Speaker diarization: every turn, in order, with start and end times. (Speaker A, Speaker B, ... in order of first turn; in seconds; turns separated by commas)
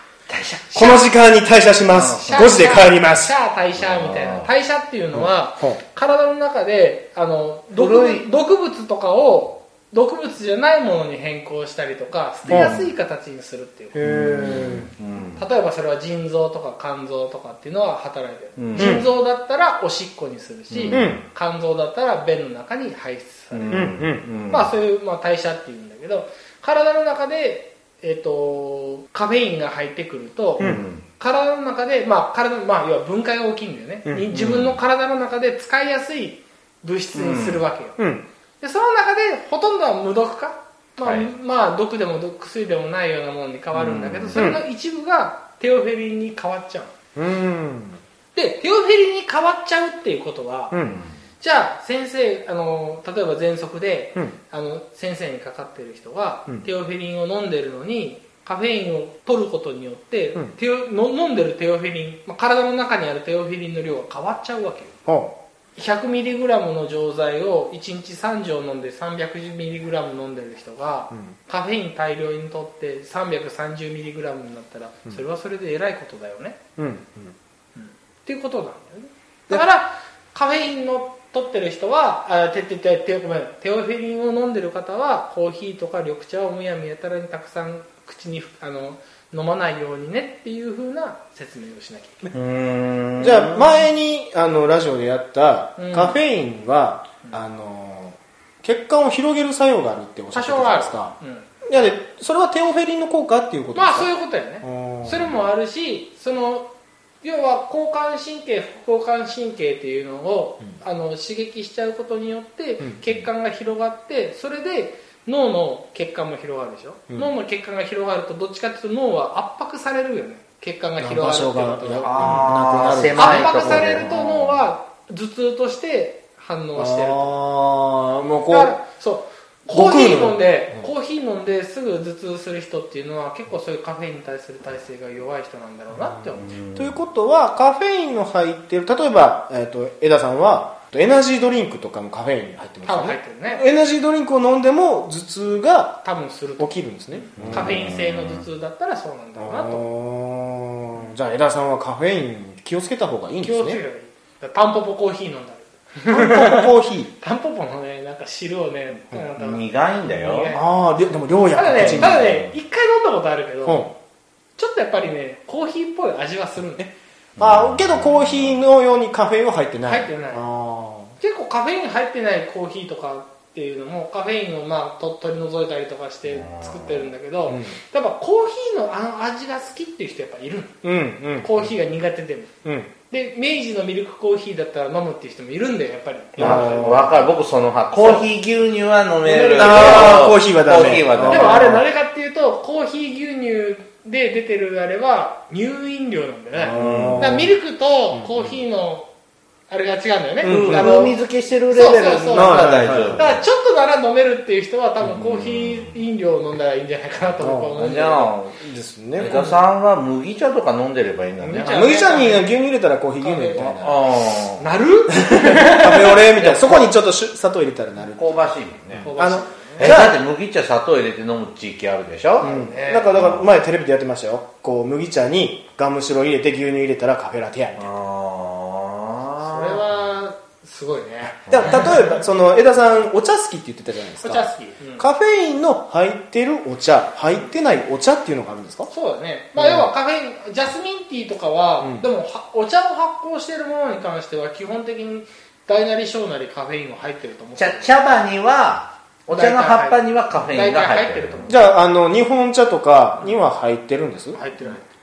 Speaker A: 0.3-0.7, Speaker B: 0.7-1.1, Speaker C: 0.7-3.3, Speaker A: 1.9-2.6, Speaker B: 2.2-14.0, Speaker A: 3.8-4.5, Speaker C: 5.1-5.8, Speaker A: 7.7-8.3, Speaker C: 12.5-12.9, Speaker C: 13.9-14.9, Speaker A: 14.0-15.4, Speaker B: 15.4-24.0, Speaker A: 18.6-19.0, Speaker C: 18.8-19.1, Speaker A: 20.7-21.2, Speaker C: 20.9-21.2, Speaker A: 23.5-24.7, Speaker C: 23.7-24.2, Speaker B: 24.5-38.0, Speaker A: 30.6-31.0, Speaker C: 30.6-30.8, Speaker A: 34.3-34.8, Speaker A: 37.1-37.6, Speaker C: 38.0-38.2, Speaker B: 38.6-46.9, Speaker A: 41.0-41.3, Speaker A: 43.7-44.5, Speaker C: 44.3-44.6, Speaker C: 47.1-48.0, Speaker B: 48.3-50.8, Speaker C: 50.7-51.0, Speaker A: 50.8-51.1, Speaker B: 51.4-65.0, Speaker C: 65.0-65.3, Speaker B: 65.8-76.6, Speaker C: 76.8-77.3, Speaker B: 77.8-92.2, Speaker A: 92.3-93.8, Speaker C: 93.2-101.1, Speaker B: 95.8-96.2, Speaker B: 100.3-101.8, Speaker C: 101.6-104.1, Speaker B: 103.7-106.7, Speaker C: 104.6-105.3, Speaker B: 107.2-127.3, Speaker C: 121.0-124.1, Speaker A: 122.0-124.6, Speaker C: 126.8-128.7, Speaker B: 128.5-136.6, Speaker C: 129.7-130.9, Speaker A: 136.4-136.9, Speaker C: 136.7-146.0, Speaker B: 142.8-143.6, Speaker B: 146.0-149.8, Speaker C: 146.6-147.9, Speaker A: 147.4-148.5, Speaker C: 149.4-153.8, Speaker B: 153.4-156.7, Speaker C: 156.1-157.1, Speaker B: 157.2-160.6, Speaker A: 159.4-160.5, Speaker C: 160.5-162.4, Speaker B: 161.5-163.9, Speaker A: 161.7-162.5, Speaker C: 163.6-163.9, Speaker B: 164.6-166.9, Speaker C: 166.8-171.2, Speaker A: 167.4-168.6, Speaker B: 169.8-170.4, Speaker B: 171.2-180.8, Speaker A: 176.3-177.1, Speaker C: 177.5-177.8, Speaker C: 180.8-181.5, Speaker B: 181.4-182.5, Speaker C: 182.6-182.9, Speaker B: 183.1-187.1, Speaker C: 186.3-187.3, Speaker A: 186.4-191.7, Speaker C: 189.2-191.8, Speaker B: 189.4-190.2, Speaker B: 191.2-199.1, Speaker C: 196.5-197.5, Speaker A: 196.7-197.4, Speaker B: 199.7-201.1, Speaker C: 200.4-201.1, Speaker A: 200.4-203.4, Speaker B: 201.7-208.3, Speaker C: 202.3-203.2, Speaker A: 205.0-206.0, Speaker C: 207.4-207.8, Speaker A: 207.8-208.6, Speaker C: 208.6-209.5, Speaker A: 209.2-211.8, Speaker B: 211.4-212.5, Speaker C: 211.6-214.0, Speaker B: 213.2-213.9, Speaker A: 213.8-214.8, Speaker B: 214.6-216.3, Speaker C: 215.2-218.3, Speaker A: 216.3-216.9, Speaker A: 218.1-219.1, Speaker B: 219.0-219.9, Speaker C: 219.1-220.2, Speaker A: 219.8-222.5, Speaker B: 222.4-223.2, Speaker C: 222.4-227.9, Speaker A: 223.1-223.4, Speaker A: 227.8-229.8, Speaker B: 229.4-231.9, Speaker C: 231.5-238.9, Speaker A: 231.5-231.9, Speaker B: 234.2-235.1, Speaker B: 238.9-248.0, Speaker C: 239.6-239.9, Speaker A: 247.6-251.6, Speaker B: 249.3-251.7, Speaker C: 251.5-254.4, Speaker B: 254.3-254.8